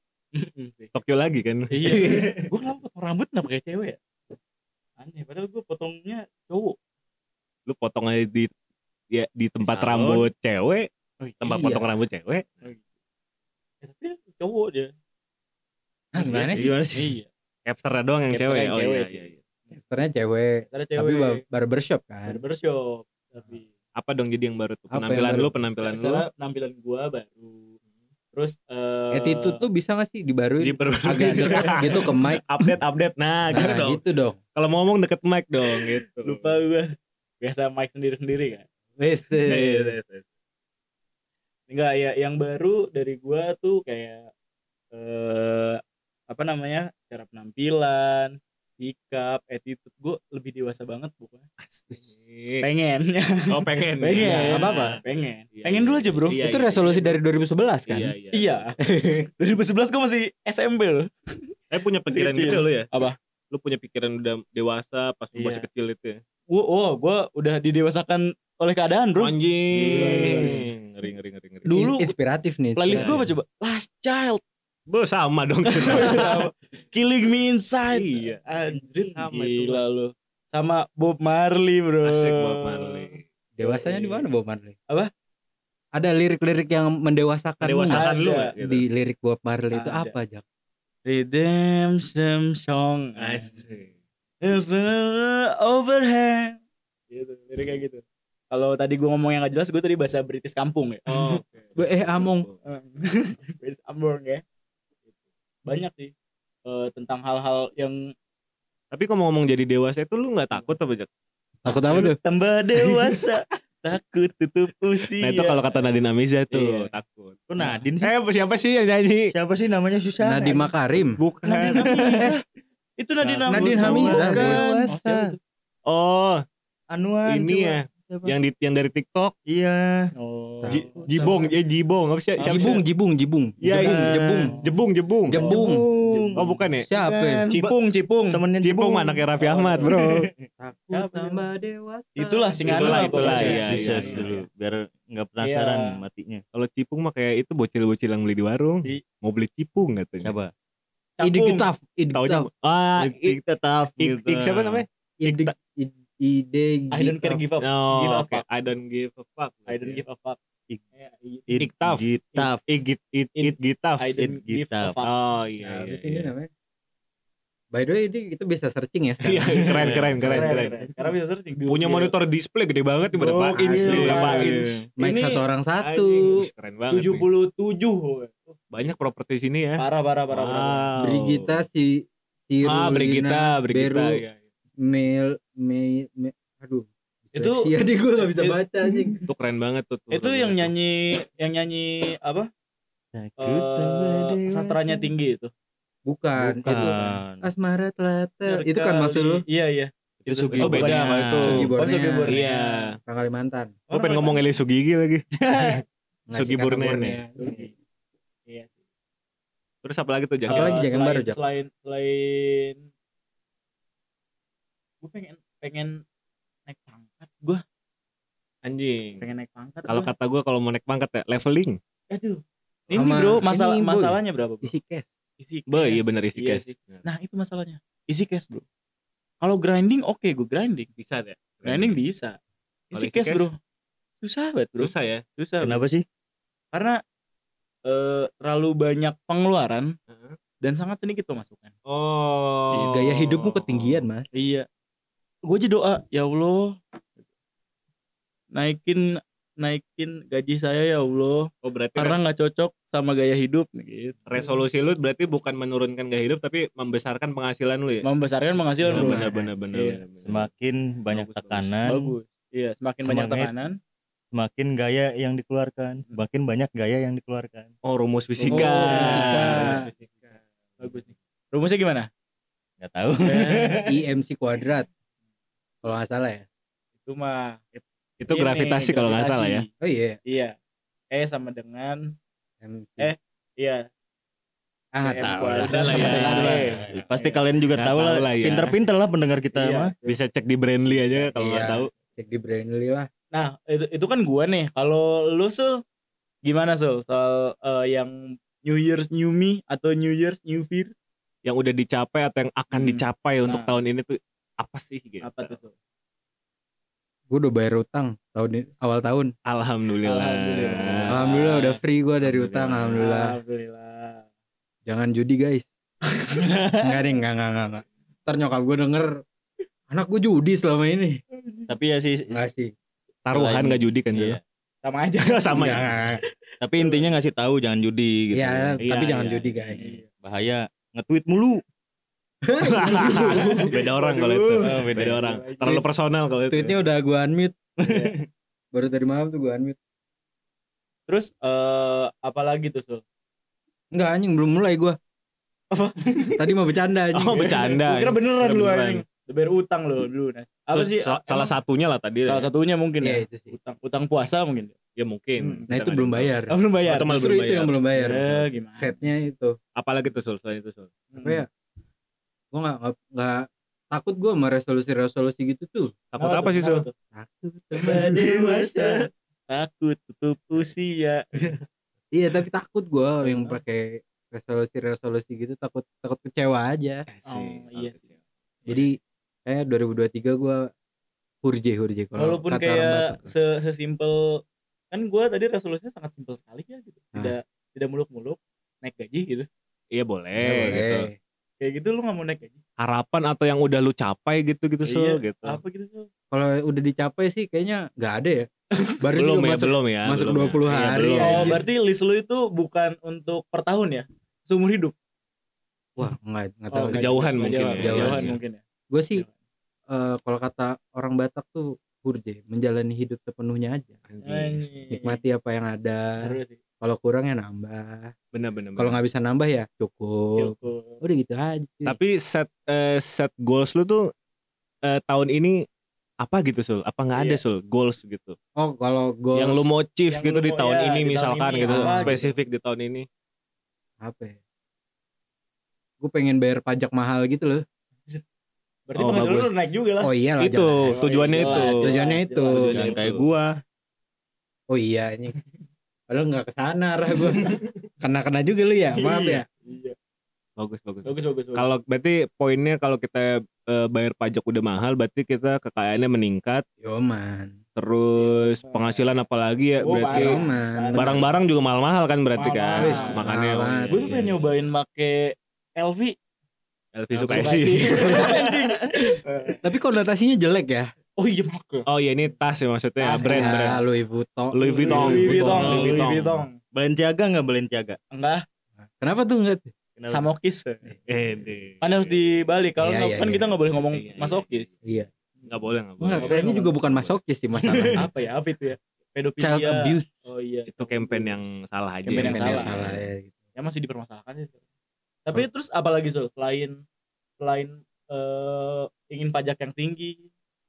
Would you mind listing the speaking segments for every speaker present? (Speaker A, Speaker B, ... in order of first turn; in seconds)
Speaker A: 0.3-0.9, 1.7-4.0, 5.0-6.8, 9.7-10.2, 11.2-11.7, 13.8-14.9, 16.2-17.3, 18.3-19.3, 20.7-21.4, 22.3-23.7, 25.7-27.7, 28.3-29.6, 36.2-36.9, 37.4-38.6, 41.7-44.3, 44.9-51.5, 52.6-56.4, 58.3-58.8, 59.4-61.1, 62.1-63.2, 65.3-65.7, 66.5-70.7, 71.7-72.1, 72.8-74.4, 75.7-84.3, 87.9-88.5, 89.7-90.2, 91.1-93.6, 94.4-96.6, 97.1-101.4, 102.7-104.4, 105.7-106.1, 106.7-108.1, 111.9-115.8, 116.5-116.9, 121.5-122.4, 123.0-125.4, 130.2-131.1, 132.4-132.8, 135.4-136.6, 137.5-138.4, 139.4-139.9, 140.9-141.4, 142.2-144.4, 145.4-146.0, 151.2-151.7, 156.9-158.4, 159.7-160.4, 161.0-161.5, 163.4-165.2, 170.2-172.1, 173.1-175.4, 176.9-178.6, 179.8-180.9, 187.3-188.6, 190.1-192.5, 193.4-195.5, 196.7-197.2, 198.5-202.9, 203.9-204.4, 207.4-207.7, 208.5-208.7, 210.5-212.8, 215.0-216.0, 216.7-217.6, 219.2-220.1, 222.1-224.7, 225.4-228.7, 229.4-230.9, 231.7-232.4, 232.9-233.6, 234.2-235.8, 236.7-237.0, 237.9-239.9, 240.6-241.7, 242.7-243.0, 244.3-244.7, 245.4-246.8, 248.5-254.5, 258.0-260.0, 261.9-263.8, 268.4-269.9, 270.8-272.1, 273.2-273.8, 277.0-277.6, 278.3-279.7, 280.3-280.6, 281.1-282.1, 283.0-283.9, 285.0-287.4, 289.5-290.2, 290.9-291.6, 293.3-295.8, 296.4-300.9, 302.7-303.8, 305.2-305.7, 310.1-311.8, 313.0-314.3, 321.4-321.7, 324.8-326.1, 326.8-327.1, 329.2-330.1, 333.3-335.8, 337.8-338.2, 341.1-343.0, 345.7-346.5, 347.3-351.5, 352.3-354.8, 355.4-355.7, 356.5-359.0, 361.1-361.4, 366.2-366.9, 367.8-371.2, 373.2-373.6, 377.3-378.1, 382.2-384.4, 384.9-389.5, 391.6-392.6, 394.9-396.1, 401.1-404.9, 406.7-408.6, 414.2-415.2, 416.2-416.6, 420.4-421.0, 427.1-427.4, 430.1-432.3, 438.9-440.1, 440.9-443.0, 449.0-449.9, 451.1-451.7, 458.1-459.0, 459.8-461.3, 462.4-463.3, 463.9-466.1, 467.2-469.6, 471.2-471.9, 473.0-473.8, 474.6-476.6, 478.1-478.4, 480.1-480.8, 481.8-484.7, 486.2-486.8, 488.0-491.5, 492.1-492.8, 493.6-494.6, 495.3-496.8, 497.4-500.3
Speaker B: 0.9-1.7, 7.7-8.5, 9.1-10.9, 11.4-12.6, 17.7-19.4, 23.9-26.3, 30.6-34.0, 34.5-36.5, 39.5-40.2, 51.6-52.7, 53.5-55.0, 55.5-57.2, 57.9-58.5, 61.7-62.9, 63.5-66.2, 69.2-71.8, 72.9-73.2, 74.9-76.5, 77.9-78.4, 79.0-79.8, 82.0-83.2, 87.6-88.8, 93.2-93.9, 101.1-102.6, 108.9-111.1, 115.2-117.5, 118.0-119.3, 121.2-122.1, 123.8-125.3, 125.9-126.4, 127.3-129.3, 130.7-132.8, 133.6-135.4, 136.4-136.9, 138.6-140.3, 142.7-144.3, 146.5-150.3, 152.1-153.4, 154.0-155.5, 157.6-160.0, 161.6-162.1, 162.7-164.1, 165.1-166.3, 169.2-170.8, 171.7-174.8, 175.8-177.3, 178.7-181.6, 182.6-184.4, 189.3-190.7, 200.5-201.7, 202.3-202.8, 203.9-205.8, 206.3-207.2, 209.8-210.8, 218.6-219.3, 219.9-221.8, 225.7-227.1, 231.0-232.0, 232.9-233.5, 234.8-235.2, 240.1-240.4, 241.9-244.1, 251.6-252.2, 254.3-258.1, 258.9-260.5, 261.1-261.7, 267.8-270.3, 277.8-279.6, 285.7-286.9, 287.8-288.8, 290.1-291.9, 301.4-305.6, 309.5-311.2, 312.2-313.0, 323.2-324.4, 325.2-325.9, 328.8-329.3, 332.6-336.8, 347.1-349.0, 350.7-352.5, 355.0-357.8, 359.8-360.9, 366.1-366.9, 377.1-378.1, 389.9-391.1, 392.8-395.6, 399.2-401.6, 406.9-408.4, 414.1-414.7, 418.3-419.0, 421.9-424.1, 424.9-425.6, 426.2-428.4, 429.4-433.1, 439.0-439.5, 440.4-441.9, 442.6-443.3, 450.6-456.6, 457.8-460.4, 460.9-464.3, 466.9-468.3, 471.9-473.9, 474.5-476.5, 481.1-482.1, 483.9-484.7, 485.5-487.1, 490.7-493.0
Speaker C: 1.9-2.5, 11.5-11.9, 16.1-16.7, 19.7-22.4, 24.9-25.5, 29.1-32.5, 33.5-34.4, 39.0-40.0, 54.2-55.0, 56.4-58.1, 58.8-59.3, 70.1-70.6, 71.7-73.3, 83.6-84.8, 85.9-88.1, 88.6-90.4, 101.8-102.5, 111.6-112.2, 120.2-121.2, 123.5-124.6, 130.6-131.4, 132.4-134.6, 135.3-135.9, 136.8-137.4, 140.6-143.6, 151.2-152.5, 155.2-157.4, 165.6-166.5, 167.7-169.9, 173.6-174.3, 175.0-176.5, 181.0-184.2, 184.8-189.2, 196.1-199.4, 201.4-202.4, 203.1-203.8, 206.3-207.7, 210.5-211.4, 222.9-225.1, 242.9-244.3, 259.0-259.2, 268.5-269.9, 273.9-274.9, 275.8-276.4, 279.8-280.2, 282.6-283.1, 284.9-286.2, 291.4-293.1, 307.3-309.3, 311.1-313.4, 314.9-315.7, 316.8-319.2, 319.9-321.2, 322.3-322.7, 325.5-326.2, 328.3-329.9, 332.5-333.7, 336.5-337.6, 338.7-339.8, 343.9-345.0, 346.4-347.5, 353.0-353.5, 355.7-356.6, 357.1-359.6, 361.2-361.5, 362.5-365.9, 367.1-368.3, 372.1-377.1, 378.7-380.7, 381.4-383.3, 390.4-391.2, 396.3-398.5, 399.0-401.6, 406.0-407.2, 407.8-408.3, 408.9-409.2, 409.9-414.0, 414.9-418.1, 418.8-422.0, 428.6-429.7, 431.7-432.2, 434.0-434.4, 436.0-437.6, 440.0-442.8, 444.7-445.4, 446.1-449.5, 456.8-457.6, 460.1-461.2, 462.8-464.2, 469.6-470.9, 473.2-476.0, 479.0-479.7, 482.8-483.5, 486.0-488.1, 489.4-490.1, 492.2-493.3
Speaker D: 9.9-10.2, 16.3-17.1, 117.5-118.1, 119.3-120.7, 121.5-122.3, 123.2-125.0, 126.9-128.3, 129.5-130.1, 133.7-134.4, 135.4-137.7, 138.3-139.2, 139.8-140.3, 143.1-146.4, 150.2-150.5, 153.0-154.8, 161.5-162.6, 164.2-165.0, 169.7-170.6, 173.9-174.4, 193.1-195.1, 196.4-197.4, 200.2-201.7, 205.4-205.8, 235.6-236.1, 260.2-262.1, 263.0-263.5, 264.3-267.7, 272.8-273.9, 285.8-289.9, 316.4-316.8, 321.7-322.4, 323.3-324.4, 326.6-328.8, 329.8-331.6, 334.6-335.2, 337.9-338.1, 367.9-368.9, 442.7-443.6, 475.5-476.1, 476.7-478.0, 480.0-480.3, 487.7-487.9